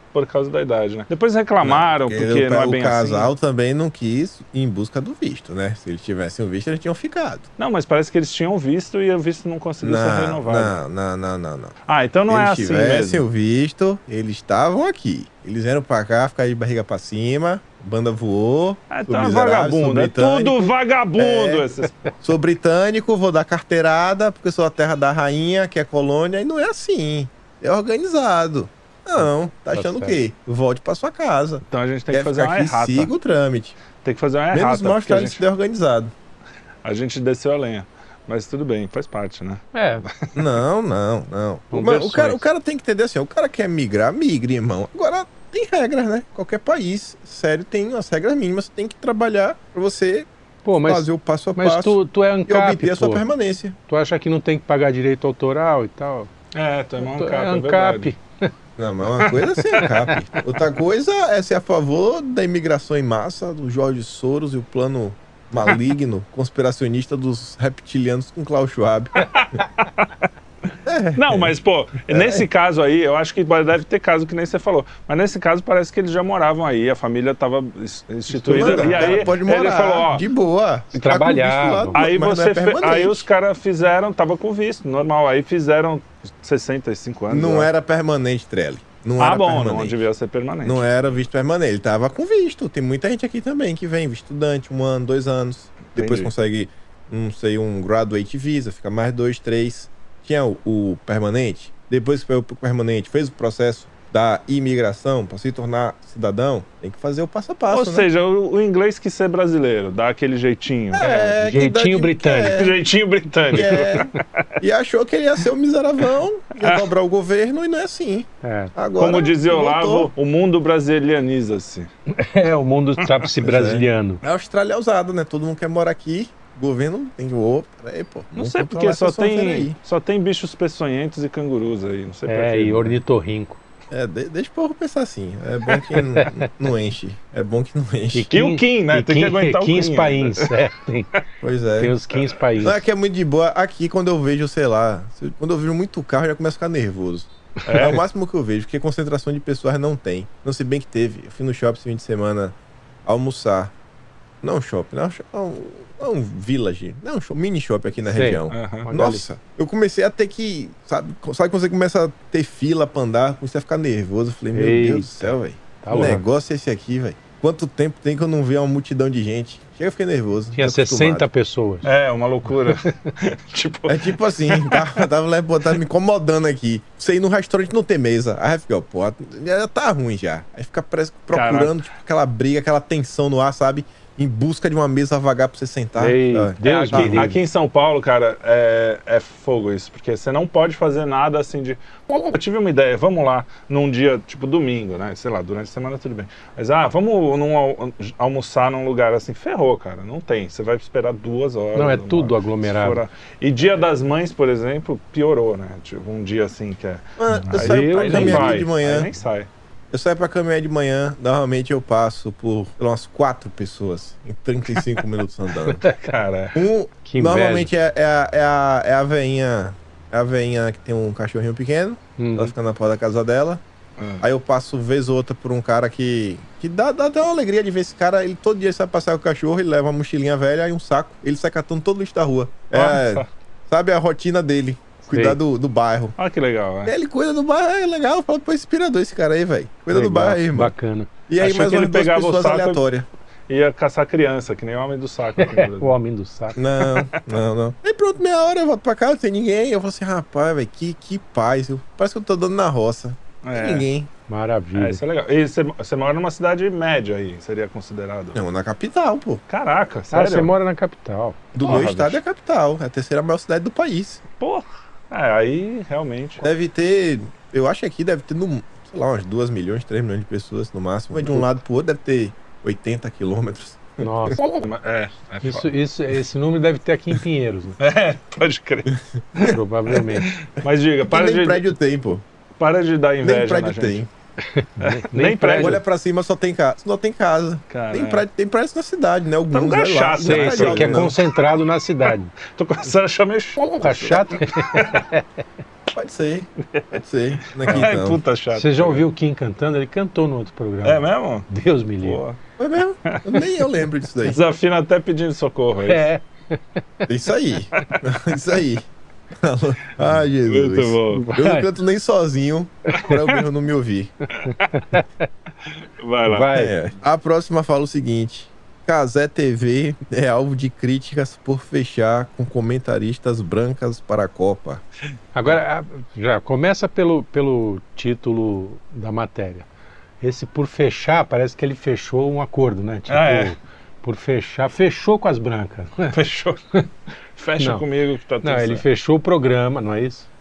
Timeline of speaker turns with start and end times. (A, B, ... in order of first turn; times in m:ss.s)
0:00.1-0:03.3 A
0:01.6-0:07.5 B
0:07.6-0:10.8 A
0:09.8-0:11.8 B
0:11.9-0:13.2 A
0:12.3-0:21.7 B
0:18.9-0:22.0 A
0:22.2-0:33.8 B
0:29.7-0:30.2 C
0:31.7-0:33.1 A
0:34.0-0:35.4 A
0:34.5-0:36.1 B
0:36.8-0:40.5 A
0:39.7-0:40.0 C
0:40.4-0:53.8 B
0:41.7-0:42.4 C
0:50.6-0:53.3 C
0:53.9-0:56.3 C
0:56.5-0:58.1 A
0:57.0-0:58.5 C
0:58.8-1:09.3 B
0:59.7-1:00.2 C
1:09.2-1:10.1 A
1:10.8-1:11.6 B
1:11.2-1:20.3 A
1:12.1-1:12.5 B
1:18.4-1:19.4 C
1:18.4-1:23.2 B
1:20.9-1:22.0 C
1:21.9-1:27.7 A
1:27.3-1:30.0 B
1:29.2-1:30.9 A
1:30.6-1:48.1 B
1:36.0-1:36.3 A
1:47.7-1:51.3 A
1:50.9-1:52.8 B
1:51.1-1:52.6 C
1:52.5-1:54.2 A
1:53.5-2:00.1 B
1:53.6-1:53.8 C
1:56.6-1:56.9 A
1:58.4-1:58.7 C
1:59.0-2:01.9 A
2:02.1-2:04.2 C
2:03.4-2:09.8 B
2:08.4-2:13.0 A
2:12.3-2:13.6 C
2:13.9-2:18.3 B
2:16.1-2:16.4 C
2:18.1-2:21.2 C
2:18.3-2:20.5 A
2:21.4-2:21.9 B
2:21.8-2:22.8 C
2:22.6-2:33.7 B
2:27.7-2:28.0 A
2:34.4-2:51.3 B
2:38.1-2:39.3 C
2:38.5-2:38.9 A
2:44.5-2:46.3 C
2:45.9-2:46.2 A
2:50.6-2:51.9 C
2:51.8-2:55.0 A
2:53.9-3:07.3 B
3:01.3-3:01.8 A
3:06.0-3:07.4 C
3:06.6-3:29.5 A
3:21.8-3:23.0 C
3:27.2-3:29.1 B
3:27.5-3:28.6 C
3:29.9-3:35.9 B
3:35.7-3:36.1 C
3:36.0-3:36.6 A
3:36.5-3:43.6 B
3:37.0-3:37.7 C
3:42.2-3:42.5 C
3:44.0-3:44.2 A
3:44.2-3:56.2 B
3:52.7-3:53.3 A
3:55.1-3:55.4 C
3:56.2-3:56.9 A
3:56.8-4:00.7 B
3:59.9-4:01.1 C
4:01.3-4:03.1 B
4:01.4-4:02.8 A
4:03.5-4:06.0 A
4:05.4-4:06.6 C
4:06.6-4:14.1 B
4:06.6-4:07.2 A
4:13.4-4:13.9 A
4:14.3-4:15.0 C
4:14.8-4:18.4 A
4:18.4-4:19.4 B
4:19.5-4:20.5 A
4:20.1-4:21.5 C
4:21.5-4:24.2 B
4:21.6-4:22.2 A
4:24.4-4:26.5 A
4:26.4-4:34.4 B
4:31.2-4:31.5 C
4:34.0-4:34.4 C
4:34.6-4:35.7 A
4:35.4-4:37.8 C
4:37.8-4:41.7 A
4:39.4-4:40.3 C
4:41.1-4:42.2 B
4:42.6-4:44.1 A
4:43.2-4:44.1 B
4:44.4-4:45.8 C
4:44.8-4:45.8 A
4:45.6-4:51.2 B
4:47.7-4:48.2 A
4:49.5-4:51.2 A
4:50.2-4:52.3 C
4:52.4-4:55.1 A
4:53.8-4:55.2 C
4:55.9-4:58.2 B
4:57.5-4:59.0 A
4:58.6-5:02.2 C
5:00.8-5:01.5 A
5:02.0-5:02.4 A
5:02.6-5:04.4 B
5:03.1-5:03.5 A
5:04.2-5:06.1 A
5:05.8-5:07.1 C
5:07.1-5:14.1 B
5:10.5-5:11.3 A
5:11.1-5:11.7 C
5:13.0-5:13.4 A
5:14.4-5:15.3 C
5:14.4-5:14.7 A
5:15.6-5:16.5 A
5:16.3-5:16.7 C
5:16.5-5:24.8 B
5:25.4-5:29.7 C
5:30.2-5:36.2 C
5:33.1-5:33.6 A
5:36.1-5:36.6 A
5:37.4-5:38.8 A
5:37.6-5:37.8 C
5:38.4-5:40.3 C